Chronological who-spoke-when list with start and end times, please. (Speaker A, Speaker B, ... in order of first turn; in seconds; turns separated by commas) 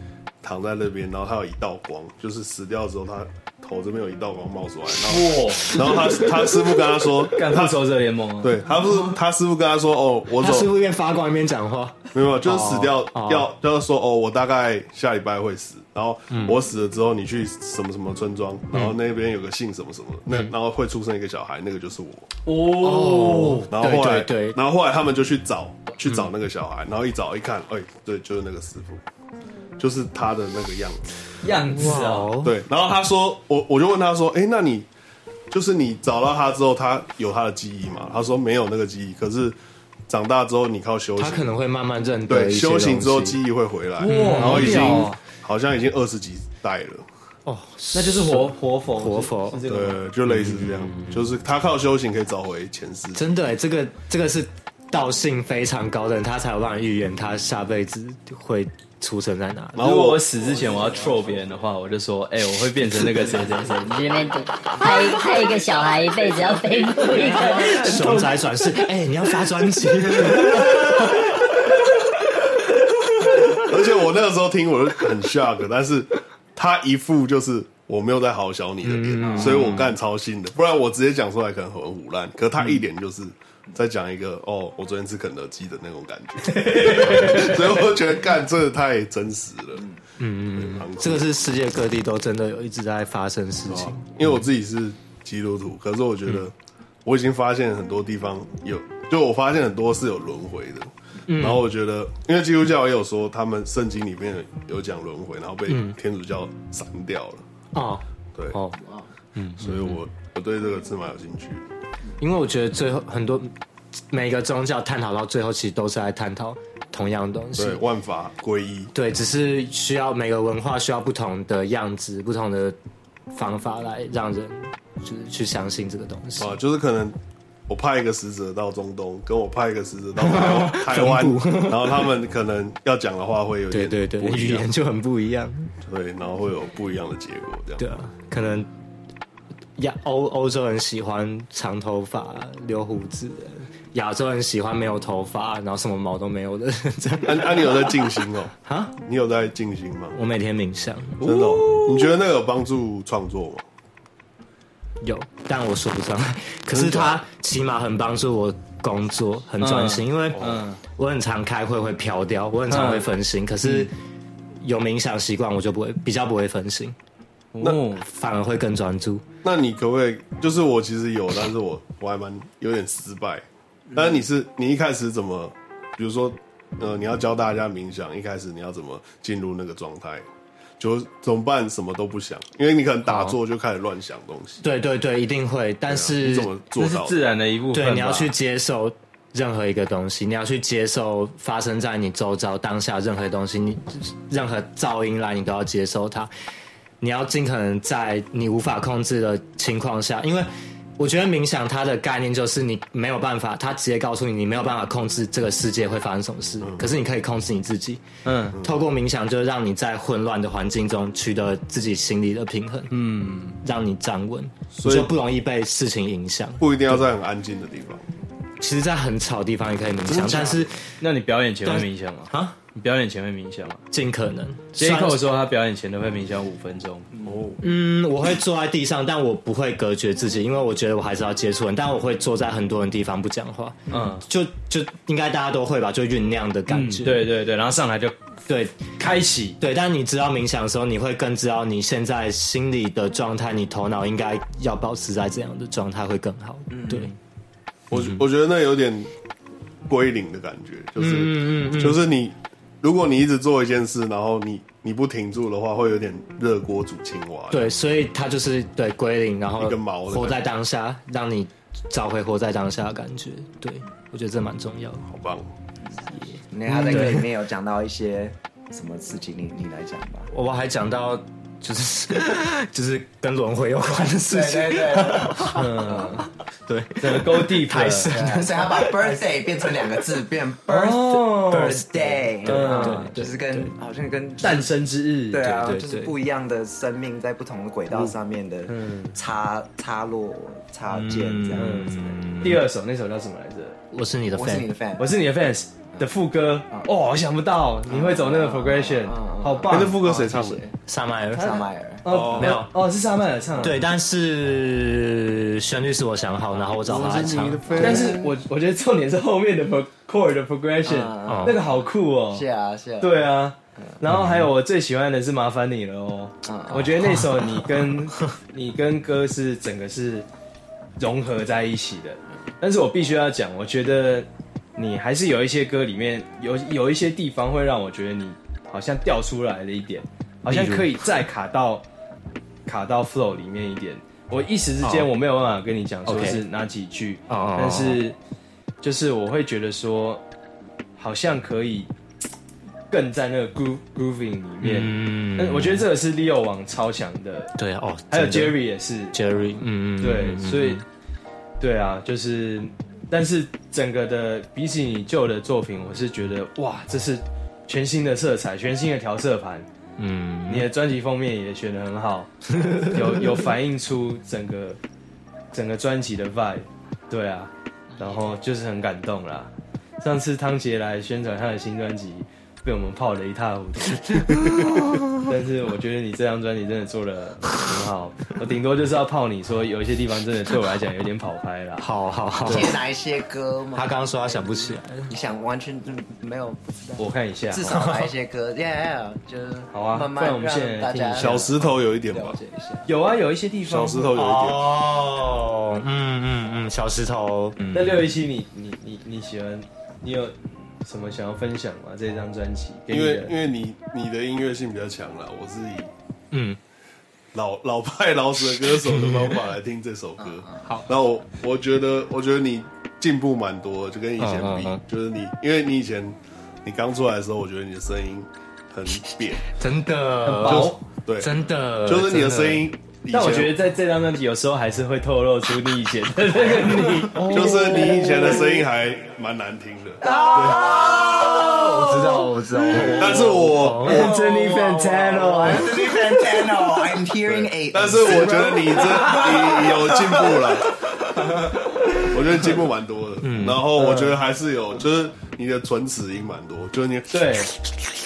Speaker A: 0.4-7.8, Speaker B: 5.1-5.8, Speaker B: 7.3-8.6, Speaker A: 8.4-10.7, Speaker C: 10.4-13.5, Speaker A: 12.1-22.3, Speaker C: 16.3-16.6, Speaker B: 22.4-23.7, Speaker C: 22.8-24.6, Speaker A: 23.7-29.0, Speaker A: 29.8-31.1, Speaker B: 31.4-32.3, Speaker C: 31.7-32.6, Speaker A: 32.4-34.9, Speaker A: 35.5-39.6, Speaker A: 40.1-41.5, Speaker C: 41.2-43.4, Speaker A: 42.3-47.0, Speaker B: 44.0-45.2, Speaker C: 44.0-45.1, Speaker C: 47.5-49.6, Speaker B: 47.9-50.0, Speaker A: 49.6-53.3, Speaker C: 50.2-51.3, Speaker C: 53.1-59.9, Speaker A: 59.8-60.2, Speaker B: 59.8-64.3, Speaker D: 63.9-67.8, Speaker B: 66.8-68.4, Speaker E: 67.5-67.8, Speaker C: 67.5-71.5, Speaker B: 70.3-70.8, Speaker C: 73.2-73.5, Speaker A: 73.5-89.9, Speaker C: 78.8-80.0, Speaker B: 86.5-87.6, Speaker C: 90.2-94.4, Speaker A: 90.5-91.5, Speaker A: 93.7-96.5, Speaker A: 97.0-107.4, Speaker C: 101.3-101.7, Speaker C: 105.7-106.0, Speaker C: 107.7-108.8, Speaker C: 109.4-110.0, Speaker A: 109.6-111.7, Speaker C: 112.2-113.5, Speaker C: 114.1-117.8, Speaker A: 117.6-118.9, Speaker C: 118.9-122.8, Speaker C: 123.3-126.6, Speaker A: 126.4-127.2, Speaker A: 127.7-134.7, Speaker C: 130.2-132.1, Speaker C: 133.7-135.7, Speaker A: 135.8-137.9, Speaker C: 137.8-138.7, Speaker C: 139.8-148.1, Speaker A: 147.2-150.2, Speaker C: 148.7-148.9, Speaker C: 150.1-151.2, Speaker B: 151.2-152.2, Speaker A: 151.2-153.6, Speaker C: 155.0-163.9, Speaker A: 156.7-157.2, Speaker B: 159.6-160.8, Speaker A: 160.3-160.6, Speaker B: 162.7-163.1, Speaker B: 163.6-163.9, Speaker C: 164.6-166.9, Speaker B: 167.5-168.1, Speaker C: 168.0-169.2, Speaker A: 169.4-180.2, Speaker A: 180.8-184.6, Speaker C: 183.1-183.4, Speaker C: 184.6-186.5, Speaker A: 185.9-187.2, Speaker B: 186.8-188.3, Speaker C: 187.7-196.3, Speaker C: 197.0-208.0, Speaker A: 206.6-206.9, Speaker B: 208.2-208.6, Speaker C: 208.6-212.9, Speaker B: 212.9-213.6, Speaker C: 213.6-217.0, Speaker A: 214.8-215.1, Speaker A: 216.6-218.0, Speaker C: 218.6-220.8, Speaker A: 220.1-220.7, Speaker B: 221.0-223.8, Speaker C: 221.6-222.6, Speaker C: 223.9-225.2, Speaker B: 224.8-227.1, Speaker A: 227.2-227.6, Speaker C: 227.6-237.3, Speaker B: 233.9-234.2, Speaker B: 236.7-238.2, Speaker C: 238.5-238.8, Speaker B: 239.0-239.6, Speaker C: 239.6-247.1, Speaker E: 246.7-247.1, Speaker A: 247.9-249.1, Speaker C: 247.9-248.2, Speaker A: 249.9-257.7, Speaker C: 251.0-252.1, Speaker C: 257.5-265.1, Speaker A: 259.6-260.4, Speaker A: 265.1-265.5, Speaker C: 266.2-267.2, Speaker E: 266.5-270.3, Speaker C: 270.3-275.9, Speaker E: 274.3-276.2, Speaker B: 275.5-276.3, Speaker C: 276.7-279.2, Speaker B: 277.0-278.1, Speaker E: 278.1-284.7, Speaker B: 280.7-281.8, Speaker C: 281.6-283.7, Speaker B: 282.5-283.1, Speaker B: 284.4-285.7, Speaker E: 285.3-292.2, Speaker C: 285.6-286.1, Speaker B: 288.7-289.2, Speaker C: 290.9-292.6, Speaker B: 291.6-293.8, Speaker C: 293.9-294.7, Speaker E: 294.3-295.1, Speaker B: 295.0-300.0, Speaker E: 297.9-300.7, Speaker A: 299.7-300.6, Speaker C: 300.9-301.6, Speaker B: 301.3-303.8, Speaker E: 301.4-302.1, Speaker A: 302.1-302.6, Speaker C: 302.1-302.7, Speaker C: 303.6-307.9, Speaker A: 306.9-308.1, Speaker E: 306.9-308.4, Speaker B: 307.8-312.4, Speaker E: 310.8-311.7, Speaker C: 311.3-311.6, Speaker E: 312.3-313.3, Speaker B: 313.0-320.3, Speaker C: 314.1-314.5, Speaker E: 316.4-317.1, Speaker B: 321.0-331.8, Speaker C: 330.5-331.0, Speaker B: 332.7-338.2, Speaker C: 334.8-335.1, Speaker C: 336.1-336.4, Speaker C: 337.3-338.0, Speaker B: 338.8-340.2, Speaker B: 341.0-341.9, Speaker B: 342.9-347.5, Speaker C: 344.6-345.9, Speaker C: 347.6-348.6, Speaker B: 348.1-349.2, Speaker C: 349.1-350.8, Speaker B: 350.0-350.8, Speaker B: 351.6-359.7, Speaker C: 360.0-360.7, Speaker B: 360.5-364.8, Speaker B: 365.5-381.9, Speaker C: 374.4-375.1, Speaker C: 381.8-382.8, Speaker E: 382.5-392.9, Speaker C: 383.7-385.1, Speaker B: 387.0-387.7, Speaker C: 387.7-388.1, Speaker B: 389.7-391.6, Speaker A: 391.2-392.4, Speaker B: 392.9-394.2, Speaker A: 393.6-394.7, Speaker C: 394.1-398.1, Speaker B: 397.7-403.4, Speaker A: 402.9-405.9, Speaker C: 406.3-406.6, Speaker A: 407.3-419.5, Speaker C: 408.9-409.4, Speaker C: 414.2-414.8, Speaker C: 418.9-422.6, Speaker B: 420.2-420.8, Speaker A: 420.5-423.6, Speaker B: 423.1-427.9, Speaker C: 427.1-428.4, Speaker A: 427.3-430.8, Speaker E: 427.4-428.2, Speaker E: 430.0-440.2, Speaker C: 430.7-434.1, Speaker A: 432.8-434.1, Speaker B: 433.8-435.7, Speaker A: 437.3-440.8, Speaker B: 438.8-439.2, Speaker A: 442.0-447.2, Speaker C: 443.2-443.6, Speaker B: 443.8-444.2, Speaker B: 447.1-447.5